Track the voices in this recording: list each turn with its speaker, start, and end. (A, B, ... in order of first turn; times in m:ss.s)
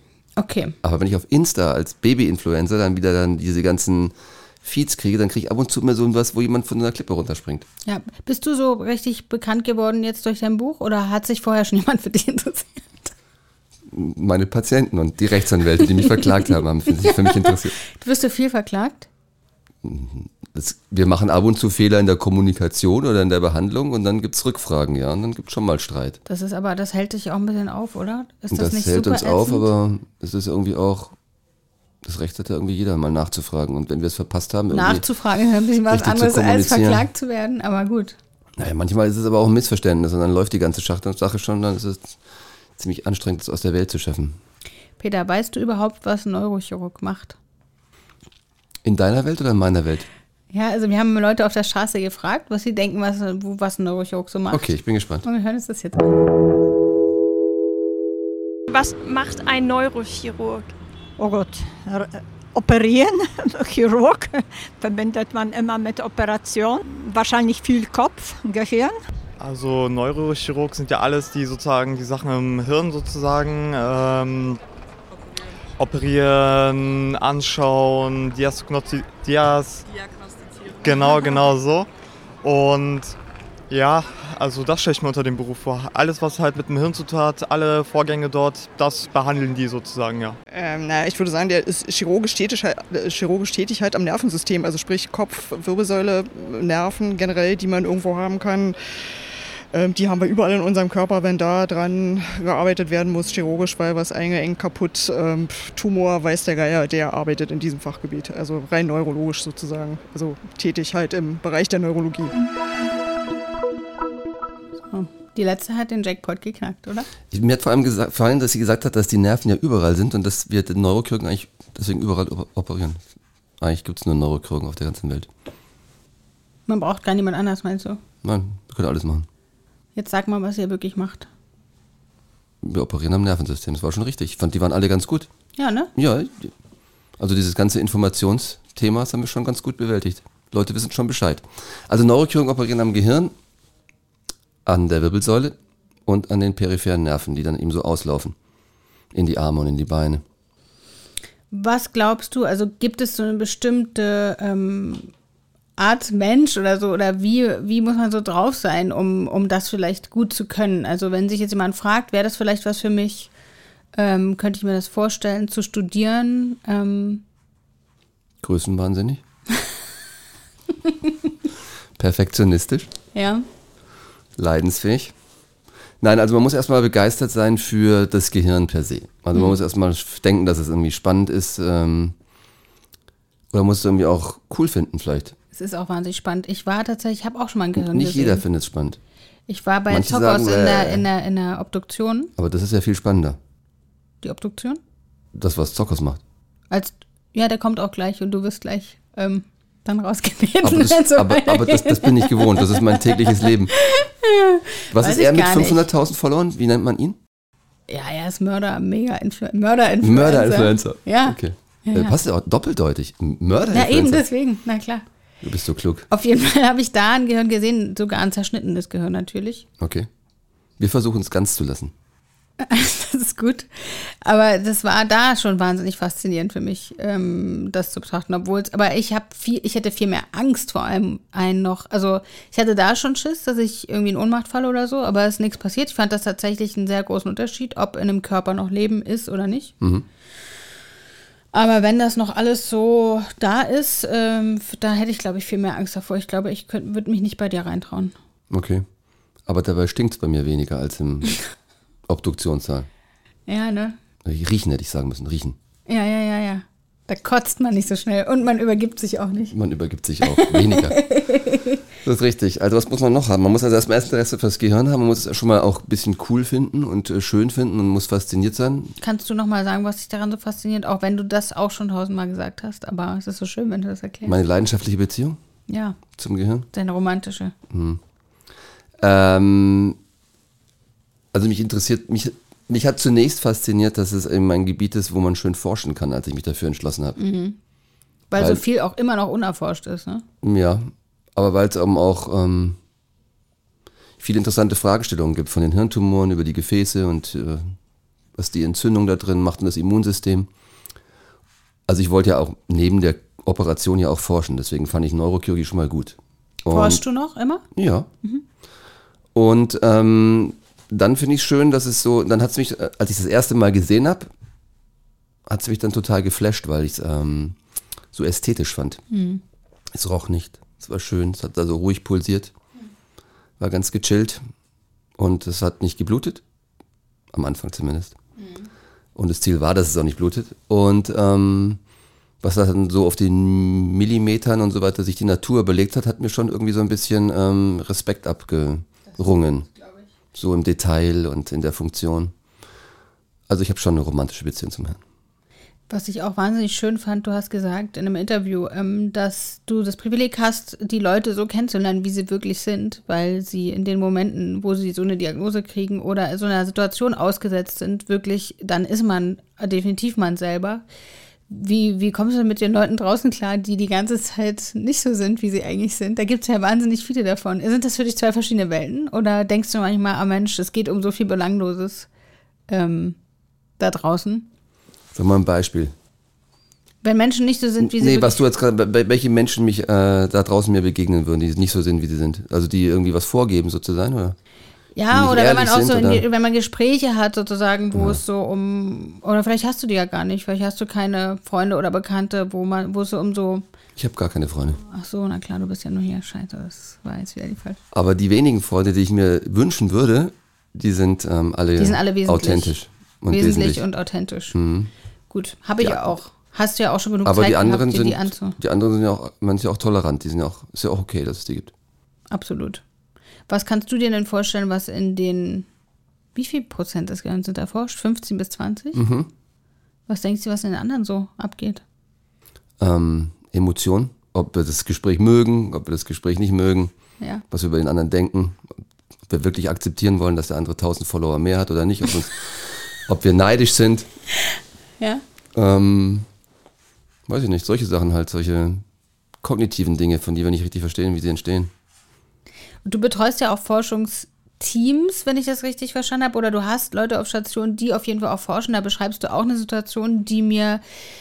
0:00.4-0:00.8 A
0:00.8-0:07.7 B
0:07.8-0:13.1 A
0:13.9-0:17.8 B
0:16.0-0:16.2 A
0:16.9-0:19.1 A
0:19.8-0:26.2 B
0:26.3-0:29.7 A
0:28.5-0:31.2 B
0:32.0-0:35.0 B
0:34.7-0:38.2 A
0:35.9-0:37.1 B
0:38.6-0:42.2 B
0:42.8-0:44.4 B
0:45.0-0:47.4 A
0:48.8-0:50.1 B
0:50.5-0:56.3 A
0:54.5-0:55.3 B
0:58.7-1:00.7 C
1:01.2-1:09.0 D
1:09.4-1:14.6 E
1:15.8-1:19.9 E
1:20.8-1:21.9 E
1:22.4-1:23.2 E
1:23.7-1:30.4 E
1:30.5-1:38.8 F
1:39.7-1:52.4 F
1:54.9-1:57.1 A
1:57.3-2:03.0 B
2:03.6-2:05.3 B
2:06.7-2:08.0 A
2:08.2-2:09.3 B
2:10.0-2:11.3 A
2:12.6-2:15.3 B
2:15.6-2:15.9 A
2:16.0-2:16.5 B
2:17.2-2:23.3 B
2:24.7-2:28.4 B
2:29.1-2:30.2 B
2:31.5-2:35.1 A
2:35.8-2:43.3 A
2:44.0-2:47.2 A
2:48.4-2:49.2 B
2:52.0-2:52.9 B
2:53.1-2:53.4 A
2:54.4-2:55.1 B
2:56.0-3:02.2 B
3:03.5-3:05.4 B
3:05.5-3:08.4 A
3:07.8-3:09.0 B
3:09.5-3:12.3 A
3:09.9-3:11.0 B
3:12.4-3:13.4 B
3:14.2-3:14.8 A
3:15.3-3:16.2 B
3:16.7-3:25.8 A
3:20.6-3:23.7 B
3:24.9-3:27.2 B
3:27.9-3:32.2 A
3:30.0-3:34.2 B
3:33.7-3:35.0 A
3:35.4-3:36.1 B
3:36.1-3:39.6 A
3:39.8-3:40.1 B
3:40.8-3:41.9 B
3:42.6-3:59.7 A
3:59.8-4:00.1 B
4:01.5-4:08.1 A
4:08.5-4:08.8 B
4:09.5-4:11.4 B
4:12.1-4:12.9 B
4:13.5-4:14.0 A
4:14.2-4:15.6 B
4:15.9-4:19.6 A
4:19.5-4:21.0 B
4:20.2-4:21.8 A
4:22.0-4:29.0 B
4:29.0-4:34.4 A
4:34.3-4:35.4 B
4:35.7-4:36.0 A
4:36.1-4:36.7 B
4:36.7-4:37.5 A
4:37.7-4:38.0 B
4:39.0-4:40.0 B
4:41.3-4:47.2 B
4:47.2-4:47.6 A
4:48.3-4:50.2 A
4:48.4-4:48.6 B
4:50.4-4:52.8 B
4:54.2-4:57.7 B
4:58.4-5:00.5 B
5:01.9-5:07.0 B
5:06.7-5:07.6 A
5:07.8-5:08.1 B
5:09.4-5:14.3 B
5:15.5-5:17.6 B
5:18.1-5:19.0 B
5:19.1-5:19.4 A
5:19.9-5:22.5 B
5:23.6-5:24.4 B
5:25.2-5:26.4 B
5:27.3-5:28.2 B
5:28.4-5:28.7 A
5:29.2-5:31.8 B
5:32.4-5:39.7 B
5:39.1-5:40.0 A
5:40.3-5:42.3 B
5:43.5-5:45.0 B
5:45.9-6:00.8 A
6:01.5-6:12.1 A
6:12.7-6:13.2 A
6:13.8-6:14.5 A
6:15.1-6:15.9 B
6:17.0-6:18.4 A
6:17.8-6:24.4 B
6:25.0-6:33.6 A
6:25.1-6:26.2 B
6:27.9-6:28.2 B
6:34.0-6:34.8 B
6:34.8-6:37.8 A
6:37.9-6:43.8 B
6:41.8-6:42.8 A
6:43.3-6:44.6 A
6:44.5-6:44.9 B
6:45.3-6:48.6 A
6:47.2-6:51.7 B
6:52.3-6:52.8 A
6:53.5-6:55.7 A
6:56.4-6:59.0 A
6:58.9-6:59.3 B
7:00.1-7:01.8 A
7:02.8-7:06.9 B
7:07.5-7:08.7 B
7:09.3-7:14.1 B
7:15.5-7:16.3 B
7:17.3-7:18.8 B
7:19.4-7:21.7 B
7:22.8-7:30.8 A